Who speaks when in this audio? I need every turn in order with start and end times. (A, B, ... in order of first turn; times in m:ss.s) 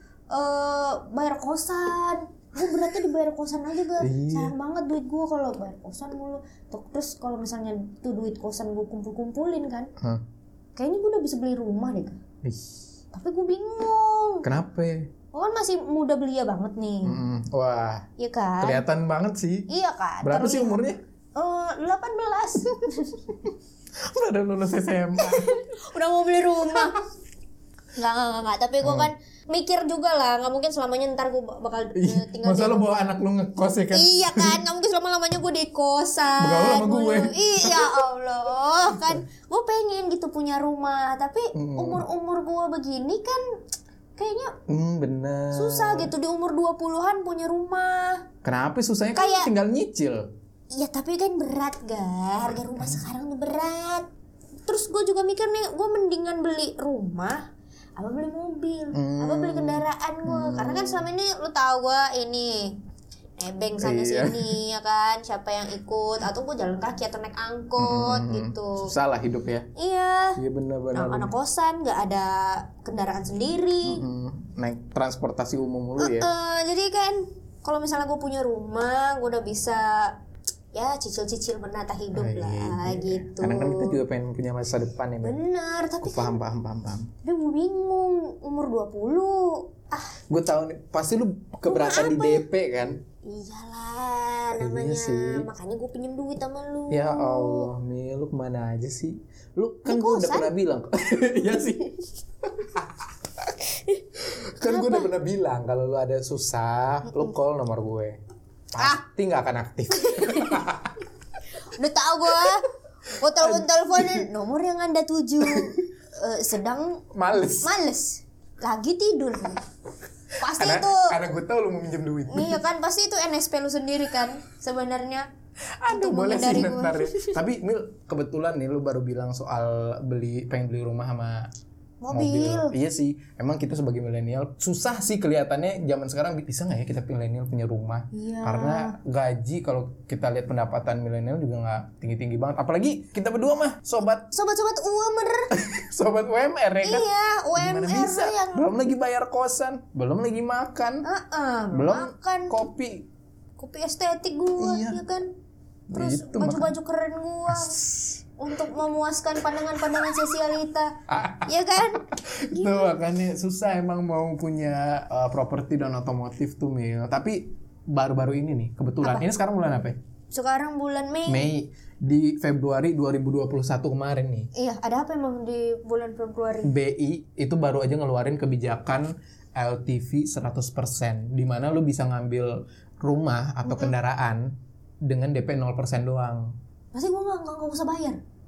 0:00.3-0:09.9 A
0:04.0-0:04.5 B
0:10.8-0:12.2 A
0:12.4-0:12.7 B
0:13.1-0:14.4 A
0:14.4-0:15.1 B
0:15.3-0:17.2 A
0:17.0-0:18.0 B
0:18.2-0:18.8 A
0:18.6-0:19.7 B
0:19.7-0:20.8 A
0:20.2-0:21.0 B
0:21.4-0:23.5 A
0:24.0-0:25.6 B
0:25.2-0:27.0 A
0:28.0-0:32.9 A
0:28.8-0:29.1 B
0:31.9-0:34.6 B
0:33.9-0:43.4 A
0:36.4-0:38.0 B
0:38.9-0:39.2 B
0:41.5-0:42.0 B
0:44.2-0:44.5 A
0:44.7-0:46.1 B
0:45.5-0:48.2 A
0:48.4-0:50.3 B
0:49.1-0:49.5 A
0:50.7-0:54.1 A
0:52.8-0:53.0 B
0:54.6-0:57.4 A
0:58.0-1:02.8 A
0:58.9-1:01.1 B
1:03.4-1:08.9 A
1:03.8-1:04.6 B
1:07.8-1:09.7 B
1:09.8-1:10.4 A
1:10.4-1:11.3 B
1:10.9-1:14.0 A
1:13.8-1:16.3 B
1:16.0-1:20.1 A
1:20.7-1:24.0 A
1:22.1-1:25.4 B
1:25.2-1:26.4 A
1:26.0-1:27.1 B
1:27.2-1:30.2 A
1:30.3-1:33.0 B
1:31.6-1:32.4 A
1:33.2-1:37.7 A
1:34.6-1:35.4 B
1:36.9-1:42.0 B
1:39.8-1:40.5 A
1:42.6-1:42.9 B
1:44.4-1:48.2 B
1:44.6-1:45.1 A
1:48.7-1:51.0 B
1:49.9-1:50.6 A
1:51.7-1:57.0 A
1:53.4-1:54.3 B
1:55.4-1:55.8 B
1:57.1-1:57.7 B
1:57.6-1:59.6 A
2:00.4-2:01.1 A
2:00.5-2:02.6 B
2:02.3-2:05.3 A
2:05.8-2:11.5 B
2:05.9-2:07.4 A
2:12.0-2:12.7 A
2:12.1-2:24.3 B
2:18.1-2:19.0 A
2:24.3-2:25.5 A
2:25.5-2:31.0 B
2:26.8-2:28.7 A
2:31.0-2:32.6 A
2:31.7-2:33.1 B
2:33.6-2:35.3 A
2:34.6-2:35.0 B
2:35.9-2:36.7 B
2:35.9-2:37.8 A
2:37.5-2:38.2 B
2:38.4-2:40.9 A
2:41.1-2:50.0 B
2:41.4-2:42.9 A
2:50.3-2:51.5 A
2:51.3-2:54.5 B
2:54.5-2:56.7 A
2:56.6-3:06.5 B
3:03.6-3:04.0 A
3:06.9-3:08.2 A